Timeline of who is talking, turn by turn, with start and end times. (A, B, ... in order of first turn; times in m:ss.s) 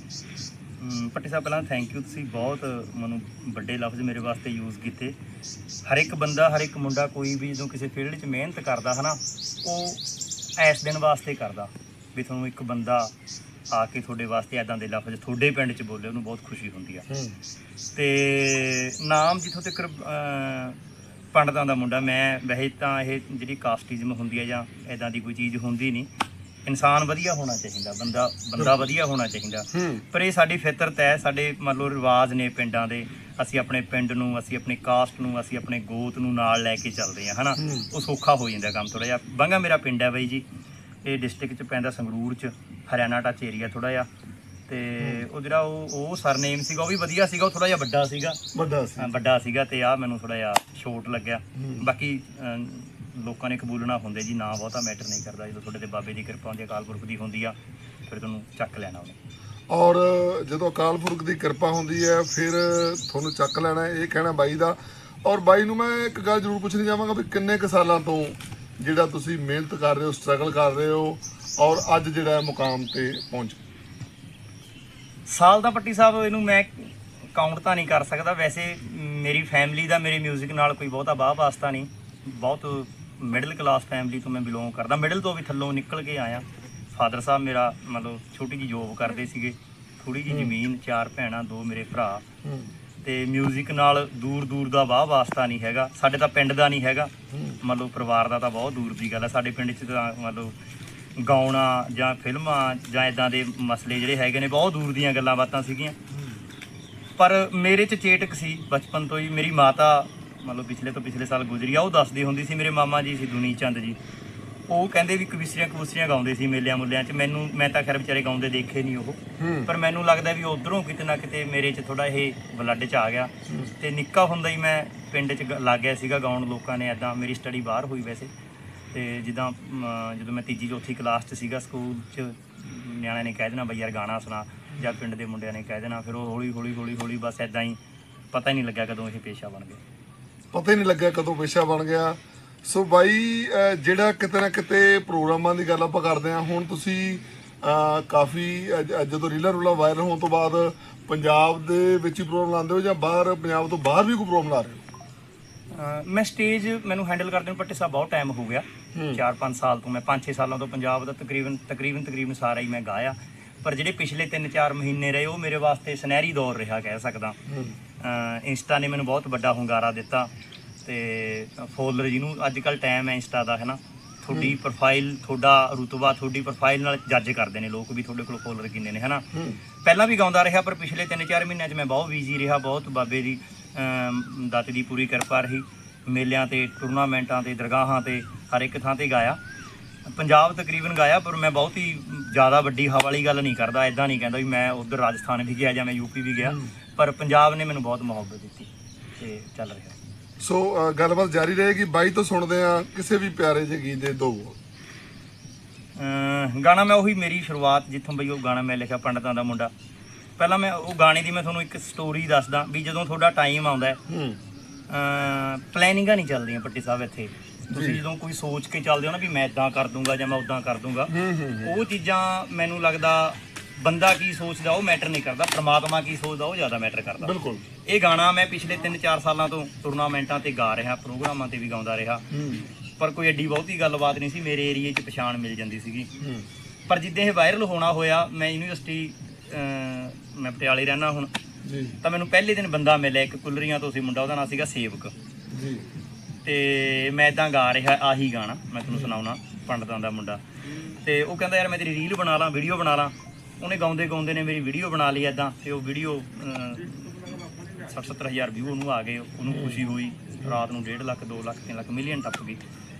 0:00.8-0:05.1 A
0:05.8-0:10.0 A
0:10.6-0:13.1 A
0:13.7-0:17.0 A
0:17.1-0:17.4 B
0:17.9-0:20.8 A
0:21.3-0:26.1 A
0:26.6-0:40.4 A
0:28.6-0:28.8 B
0:29.7-0:30.0 B
0:37.6-0:37.9 B
0:41.0-0:44.1 A
0:44.7-0:48.4 A
0:45.0-0:45.2 B
0:48.5-0:49.1 B
0:49.0-0:57.5 A
0:51.6-0:51.8 B
0:58.1-0:59.2 A
0:59.7-1:13.6 B
1:15.3-1:32.2 A
1:30.3-1:30.5 B
1:32.4-1:32.7 B
1:33.0-1:40.5 A
1:37.3-1:37.6 B
1:41.2-1:46.0 A
1:47.2-1:54.0 A
1:54.7-2:08.3 A
1:59.4-1:59.7 B
2:03.5-2:03.7 B
2:08.9-2:17.8 A
2:18.3-2:19.8 A
2:20.5-2:34.8 B
2:35.7-2:47.4 A
2:38.9-2:39.2 B
2:47.5-2:47.8 B
2:48.0-2:50.3 A
2:50.8-2:59.2 A
2:59.3-2:59.6 B
2:59.8-3:09.4 A
3:10.1-3:19.9 A
3:16.4-3:16.7 B
3:20.4-3:24.6 B
3:26.0-3:29.7 A
3:30.4-3:34.0 A
3:34.1-3:34.4 B
3:34.9-3:47.3 A
3:37.7-3:38.0 B
3:41.1-3:41.7 B
3:47.2-3:47.6 B
3:47.8-3:52.2 A
3:52.3-3:52.7 B
3:53.0-3:56.1 A
3:56.2-3:56.5 B
3:56.9-4:01.3 A
4:01.6-4:02.0 B
4:02.0-4:05.1 A
4:05.5-4:05.9 B
4:06.4-4:10.4 A
4:08.8-4:09.2 B
4:11.0-4:22.6 A
4:19.5-4:19.8 B